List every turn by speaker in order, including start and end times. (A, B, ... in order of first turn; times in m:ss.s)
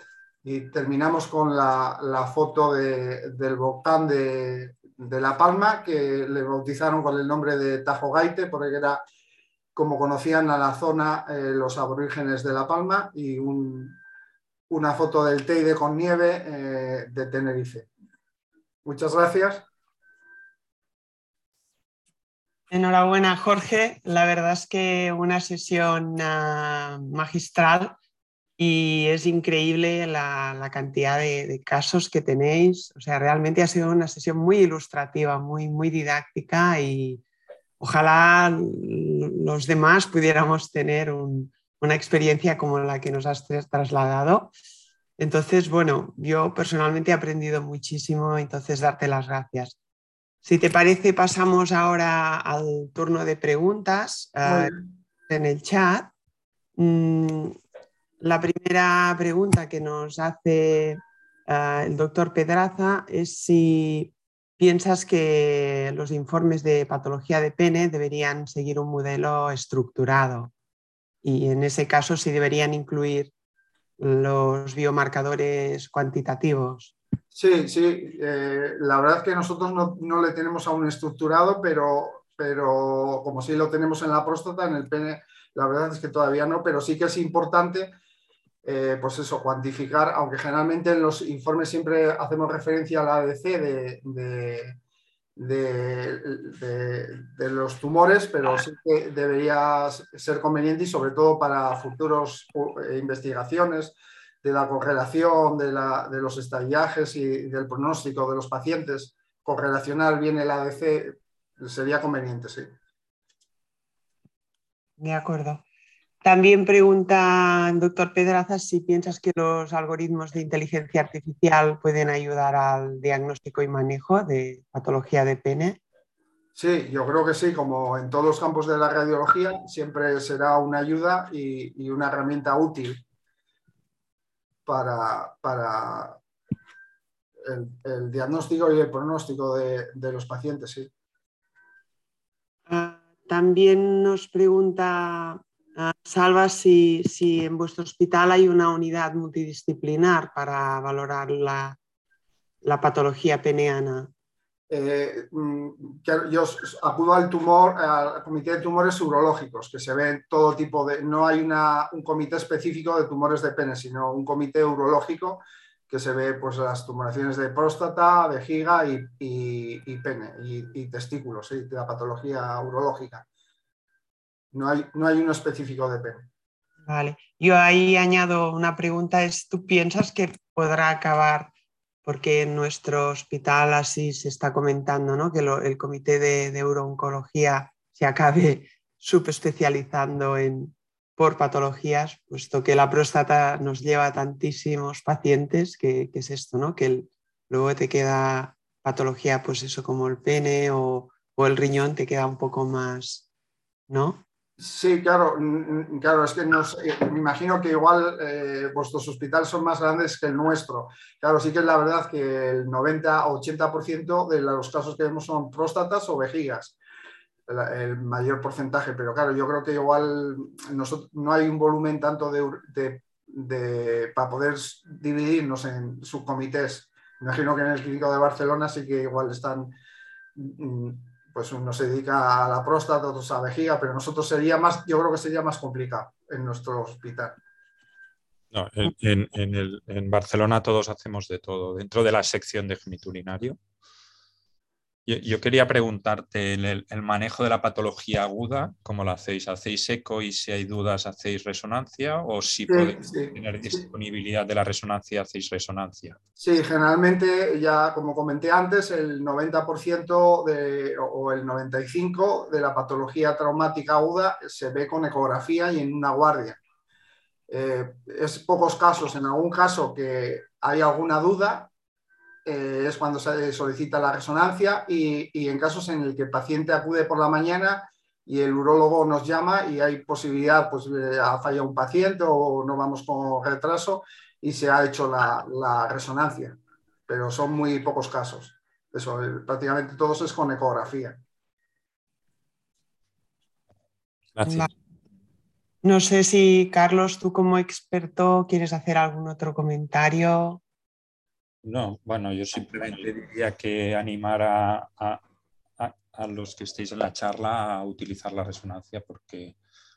0:00.4-0:09.0 A
0:09.7-0:14.0 A
0:14.7-0:17.9 A
0:18.8-0:19.7 A
0:22.7-0:28.0 B
0:28.6-0:37.2 B
0:37.8-0:44.5 B
0:45.2-0:49.8 B
0:50.4-0:54.7 B
0:54.4-0:54.8 A
0:55.3-0:56.1 B
0:56.8-0:57.6 B
0:58.2-1:10.5 B
1:11.2-1:13.3 B
1:14.0-1:16.9 B
1:17.3-1:27.9 A
1:28.6-1:34.8 A
1:35.4-1:52.7 A
1:55.0-1:55.6 B
1:56.2-2:05.8 B
2:06.5-2:13.0 A
2:14.6-2:16.2 A
2:17.4-2:20.9 A
2:22.7-2:31.8 B
2:32.6-2:34.1 B
2:34.7-2:53.2 A
2:54.5-2:56.3 A
2:56.8-3:01.5 B
3:02.0-3:23.3 B
3:23.9-3:24.2 B
3:24.6-3:36.8 A
3:37.5-3:49.7 A
3:50.3-3:57.4 A
3:58.5-4:03.6 C
4:05.1-4:16.2 C
4:12.7-4:13.8 A
4:16.4-4:26.6 A
4:27.5-4:31.7 A
4:32.4-4:51.2 A
4:54.3-4:54.7 C
4:55.8-5:00.6 B
5:01.6-5:05.2 C
5:05.8-5:09.6 C